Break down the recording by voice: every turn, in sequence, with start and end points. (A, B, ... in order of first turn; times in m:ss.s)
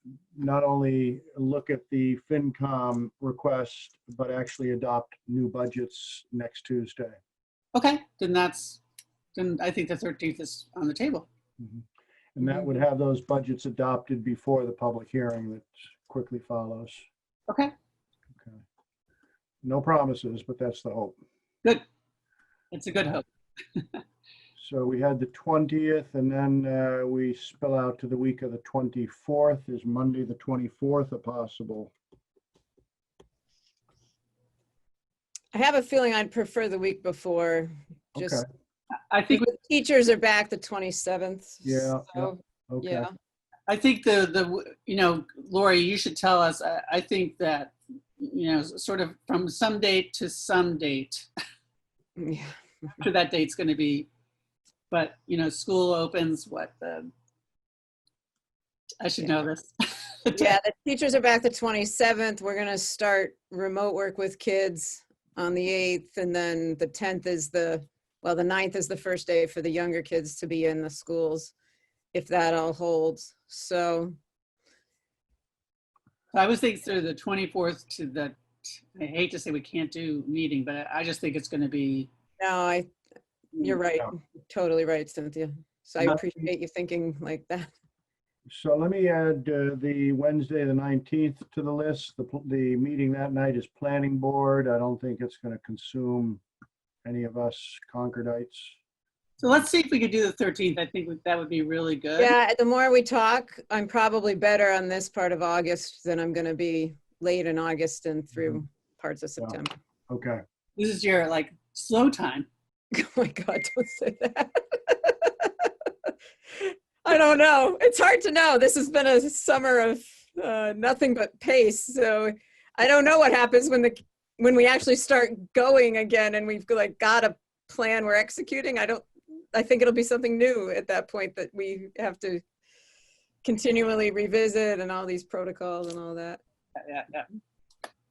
0:00.3-0:07.2 A
0:07.7-0:08.8 B
0:09.3-0:11.3 B
0:11.6-0:11.8 A
0:12.4-0:17.0 A
0:19.6-0:21.2 A
0:22.7-0:24.0 B
0:24.6-0:31.9 A
0:35.5-0:38.4 C
0:38.1-0:38.4 A
0:39.1-0:39.4 B
0:39.3-0:43.1 C
0:41.6-0:43.1 A
0:43.7-0:51.3 B
0:52.2-0:52.5 C
0:53.0-0:54.1 B
0:54.9-0:57.1 B
0:59.0-1:00.6 B
1:00.3-1:11.5 C
1:12.1-1:14.1 C
1:16.3-1:22.1 B
1:22.4-1:22.9 C
1:23.6-1:27.7 C
1:26.0-1:26.5 A
1:28.5-1:36.4 A
1:37.0-1:38.8 A
1:39.4-1:42.3 B
1:42.2-1:49.7 C
1:50.1-1:50.4 A
1:50.8-1:52.5 B
1:52.9-2:12.4 C
2:13.4-2:16.4 C
2:16.8-2:17.3 B